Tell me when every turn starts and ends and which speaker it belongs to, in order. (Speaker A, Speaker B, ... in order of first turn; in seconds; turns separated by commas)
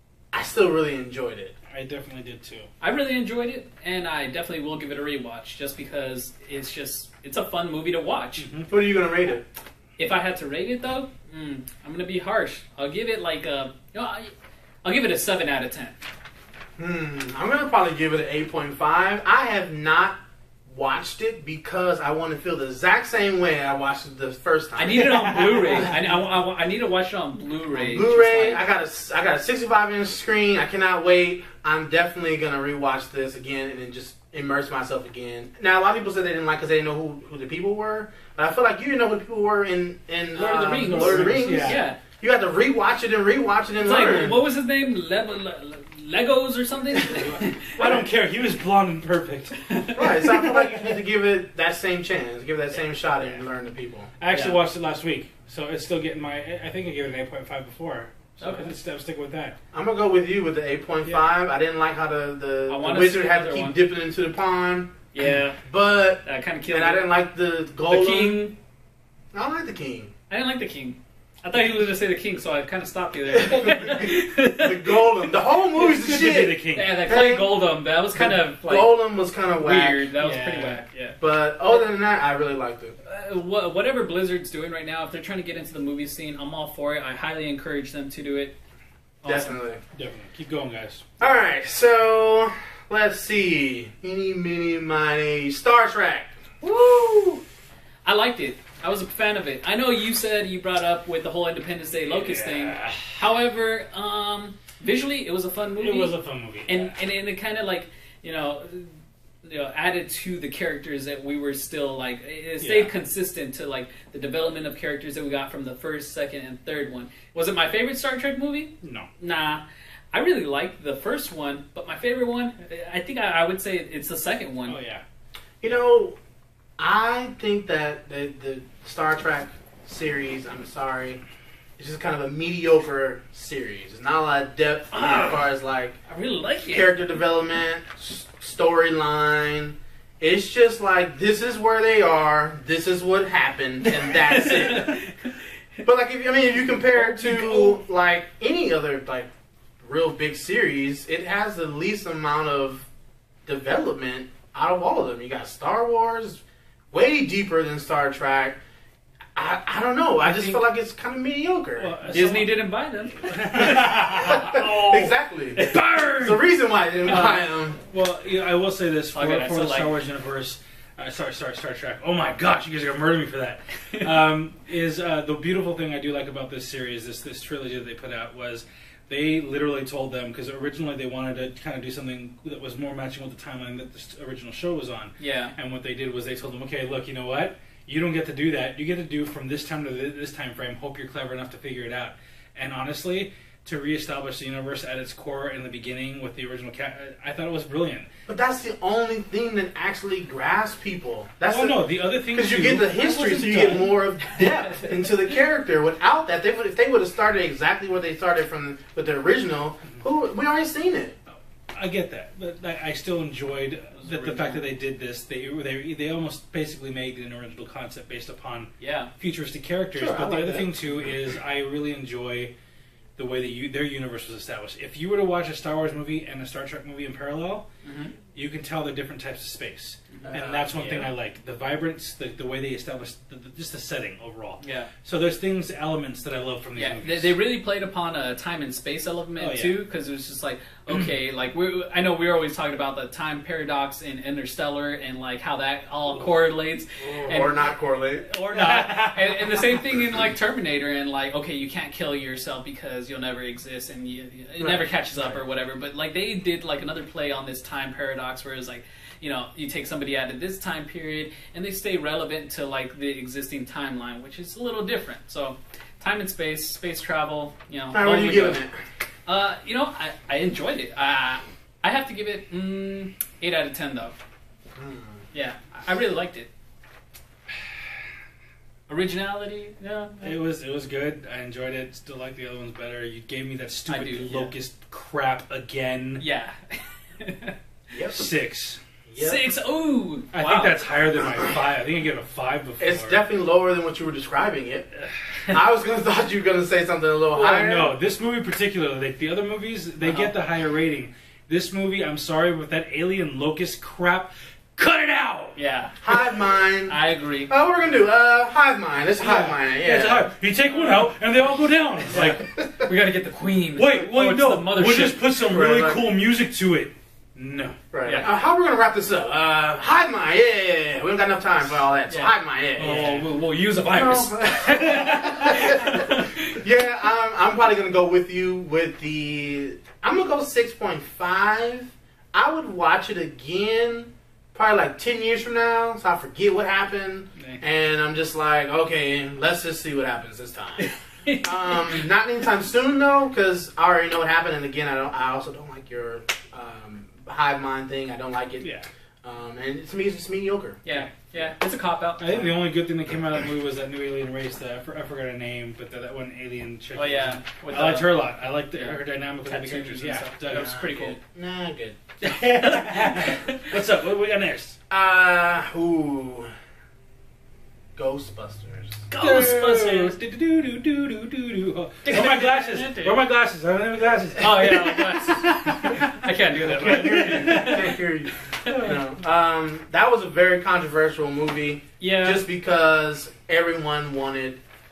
Speaker A: 0.3-1.5, Speaker B: 1.7-2.7, Speaker C: 2.8-8.5, Speaker B: 8.4-8.7, Speaker A: 8.7-9.4, Speaker C: 10.0-14.3, Speaker C: 14.8-16.0, Speaker A: 16.8-25.9, Speaker C: 24.8-28.6, Speaker A: 27.7-44.4, Speaker C: 40.3-42.0, Speaker B: 40.7-41.8, Speaker C: 43.8-47.9, Speaker B: 47.0-49.6, Speaker C: 49.6-50.2, Speaker A: 49.9-54.1, Speaker B: 50.1-51.0, Speaker B: 54.2-59.6, Speaker C: 54.3-54.6, Speaker C: 58.4-58.7, Speaker A: 59.7-64.9, Speaker C: 62.7-63.8, Speaker C: 65.1-65.6, Speaker A: 65.6-68.4, Speaker C: 66.2-67.0, Speaker C: 67.9-68.5, Speaker A: 69.3-70.1, Speaker C: 70.3-75.1, Speaker A: 73.4-77.6, Speaker B: 75.8-77.0, Speaker C: 76.7-79.0, Speaker A: 78.1-80.1, Speaker C: 79.5-81.2, Speaker B: 80.2-80.8, Speaker A: 81.2-82.9, Speaker C: 83.0-88.5, Speaker C: 89.2-89.6, Speaker A: 89.2-89.8, Speaker B: 89.9-91.1, Speaker A: 91.2-96.4, Speaker C: 96.6-97.4, Speaker C: 98.0-106.2, Speaker B: 102.0-103.1, Speaker B: 105.8-107.0, Speaker C: 106.7-108.9, Speaker C: 109.4-124.8, Speaker B: 112.6-112.9, Speaker B: 118.8-119.1, Speaker B: 124.6-125.0, Speaker A: 125.6-126.2, Speaker A: 126.8-131.2, Speaker A: 131.8-136.0, Speaker C: 134.9-135.4, Speaker C: 136.1-136.9, Speaker A: 136.7-145.0, Speaker C: 144.0-145.3, Speaker A: 145.8-149.3, Speaker B: 146.9-147.8, Speaker A: 149.8-152.9, Speaker A: 153.4-158.6, Speaker A: 159.3-161.9, Speaker B: 160.2-160.6, Speaker B: 161.8-162.5, Speaker C: 162.1-164.6, Speaker B: 163.2-166.5, Speaker A: 163.7-165.6, Speaker A: 166.2-167.8, Speaker B: 167.1-198.1, Speaker C: 167.1-167.3, Speaker C: 169.1-170.0, Speaker C: 185.2-185.5, Speaker A: 198.3-201.8, Speaker B: 201.4-204.0, Speaker A: 202.3-211.2, Speaker C: 204.3-204.9, Speaker B: 211.7-222.5, Speaker C: 213.9-214.6, Speaker C: 218.8-219.1, Speaker A: 219.9-220.8, Speaker B: 223.2-227.7, Speaker C: 227.8-228.1, Speaker B: 228.3-237.3, Speaker C: 230.1-231.1, Speaker A: 230.3-231.0, Speaker C: 234.6-234.9, Speaker C: 236.8-247.7, Speaker B: 239.4-239.8, Speaker A: 247.0-248.3, Speaker C: 248.2-268.6, Speaker B: 248.5-249.9, Speaker A: 254.6-255.4, Speaker A: 267.9-268.8, Speaker C: 269.2-274.1, Speaker A: 274.8-275.2, Speaker C: 275.3-276.5, Speaker C: 278.9-280.4, Speaker B: 280.2-286.2, Speaker C: 283.9-284.5, Speaker C: 286.2-287.6, Speaker A: 287.9-288.2, Speaker B: 288.1-288.8, Speaker A: 289.1-289.4, Speaker C: 289.2-290.9, Speaker B: 290.3-293.2, Speaker A: 292.8-294.9, Speaker A: 295.5-297.9, Speaker B: 297.3-305.6, Speaker C: 300.0-300.3, Speaker C: 305.6-305.9, Speaker A: 306.0-310.3, Speaker C: 306.9-307.5, Speaker B: 309.2-312.4, Speaker C: 310.7-311.1, Speaker C: 312.1-315.2, Speaker A: 312.1-312.9, Speaker B: 313.8-317.8, Speaker A: 315.2-316.0, Speaker A: 317.9-323.1, Speaker C: 322.1-326.6, Speaker B: 322.8-323.2, Speaker A: 323.9-350.8, Speaker C: 340.8-341.7, Speaker B: 348.6-348.9, Speaker C: 350.8-352.6, Speaker B: 352.2-360.8, Speaker C: 356.9-358.2, Speaker C: 358.7-361.2, Speaker A: 360.6-362.0, Speaker B: 362.2-364.8, Speaker C: 362.6-363.6, Speaker A: 364.9-366.5, Speaker A: 367.9-369.1, Speaker C: 369.1-370.1, Speaker B: 369.2-378.0, Speaker C: 372.0-373.2, Speaker C: 374.4-378.0, Speaker A: 376.8-384.6, Speaker C: 378.6-378.9, Speaker B: 378.6-378.9, Speaker C: 382.0-382.4